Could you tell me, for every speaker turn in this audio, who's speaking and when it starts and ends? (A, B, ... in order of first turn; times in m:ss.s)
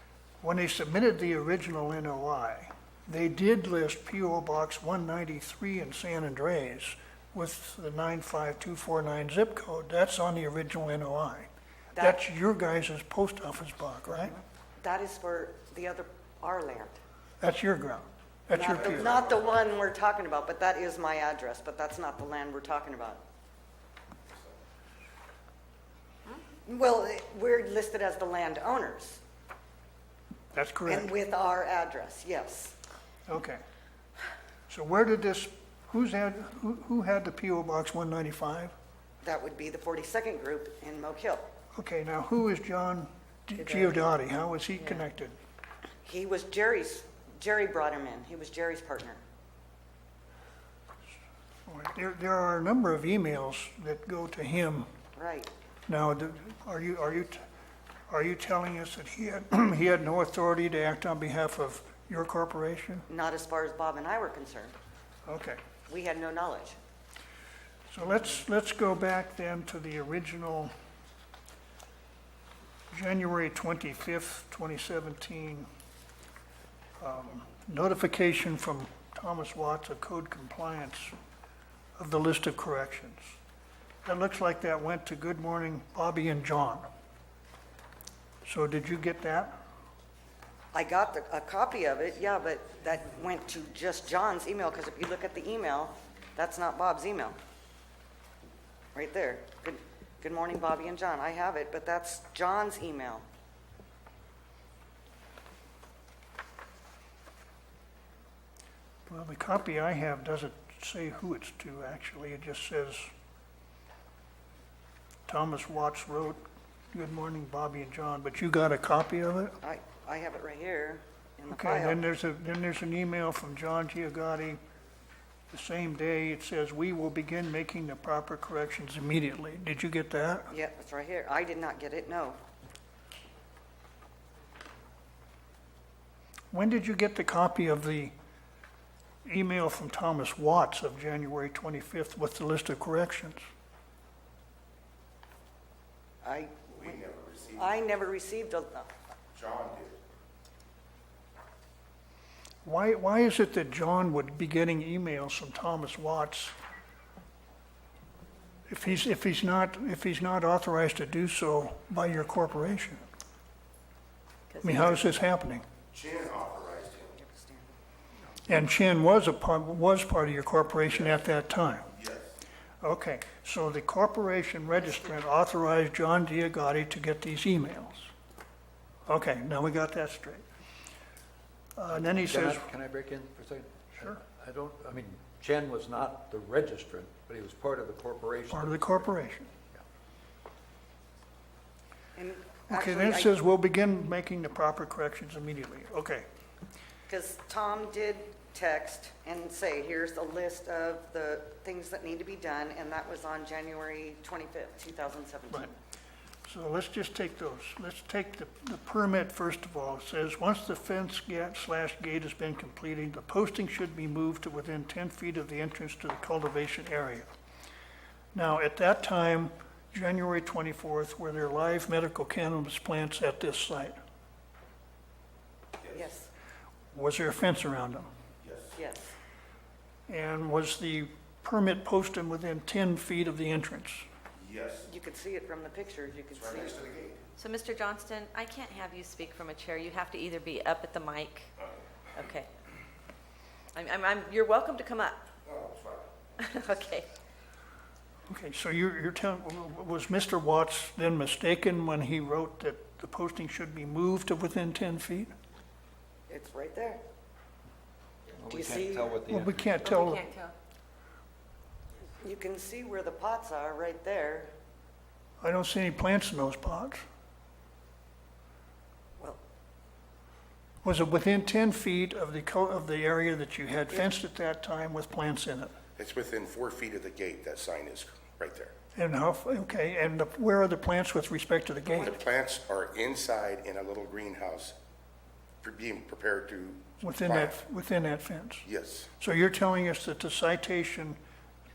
0:00.4-0:14.4 A
0:11.9-0:12.2 B
0:14.8-0:17.0 B
0:17.4-0:19.1 A
0:18.5-0:23.2 B
0:19.0-0:19.4 C
0:26.6-0:29.2 B
0:30.5-0:31.1 A
0:30.8-0:32.8 B
0:33.3-0:33.6 A
0:34.7-0:38.7 A
0:39.2-0:41.5 B
0:41.7-0:45.4 A
0:46.0-0:49.2 B
0:51.7-0:54.9 A
0:55.2-0:55.5 B
0:55.9-0:57.4 A
0:58.1-1:03.0 A
1:03.1-1:04.7 B
1:05.2-1:05.6 A
1:05.9-1:06.8 B
1:07.9-1:10.7 A
1:12.9-1:15.7 A
1:17.0-1:21.1 A
1:22.0-1:23.4 A
1:24.0-1:26.8 A
1:28.4-1:29.5 A
1:30.7-1:37.4 B
1:38.9-1:43.2 B
1:49.1-1:53.1 A
1:55.3-1:59.6 A
1:59.6-2:02.0 B
2:01.5-2:04.6 A
2:05.5-2:10.5 A
2:10.5-2:12.4 B
2:16.5-2:18.1 A
2:19.2-2:23.5 A
2:26.2-2:26.7 B
2:26.7-2:27.8 C
2:27.6-2:28.9 B
2:29.3-2:30.0 C
2:32.6-2:36.5 A
2:38.7-2:43.0 A
2:44.5-2:45.0 D
2:44.6-2:45.6 A
2:45.9-2:47.2 C
2:47.2-2:47.7 B
2:48.5-2:51.9 A
2:51.9-2:52.3 C
2:52.8-2:58.1 A
2:59.1-3:00.4 A
3:01.8-3:02.7 A
3:01.9-3:09.1 E
3:08.5-3:09.5 A
3:12.2-3:13.4 B
3:12.7-3:16.2 A
3:17.1-3:25.7 B
3:26.4-3:37.3 A
3:38.3-3:44.0 A
3:45.9-3:46.3 B
3:46.9-3:48.1 A
3:48.4-3:48.7 C
3:48.7-3:49.1 B
3:50.1-3:54.0 A
3:54.4-3:54.9 C
3:54.8-3:56.8 B
3:56.3-3:57.2 C
3:57.4-4:01.5 D
4:02.1-4:02.5 D
4:03.7-4:05.2 D
4:05.4-4:06.1 C
4:06.4-4:07.0 D
4:08.3-4:15.3 A
4:16.3-4:17.0 B
4:18.3-4:20.0 E
4:18.5-4:19.1 B
4:19.3-4:20.4 A
4:22.2-4:24.5 B
4:25.4-4:27.0 A
4:30.8-4:35.8 A
4:36.0-4:38.7 C
4:38.9-4:42.2 A
4:41.9-4:44.8 C
4:45.6-4:47.6 C
4:47.0-4:48.6 A
4:48.6-4:49.1 C
4:49.2-4:51.2 A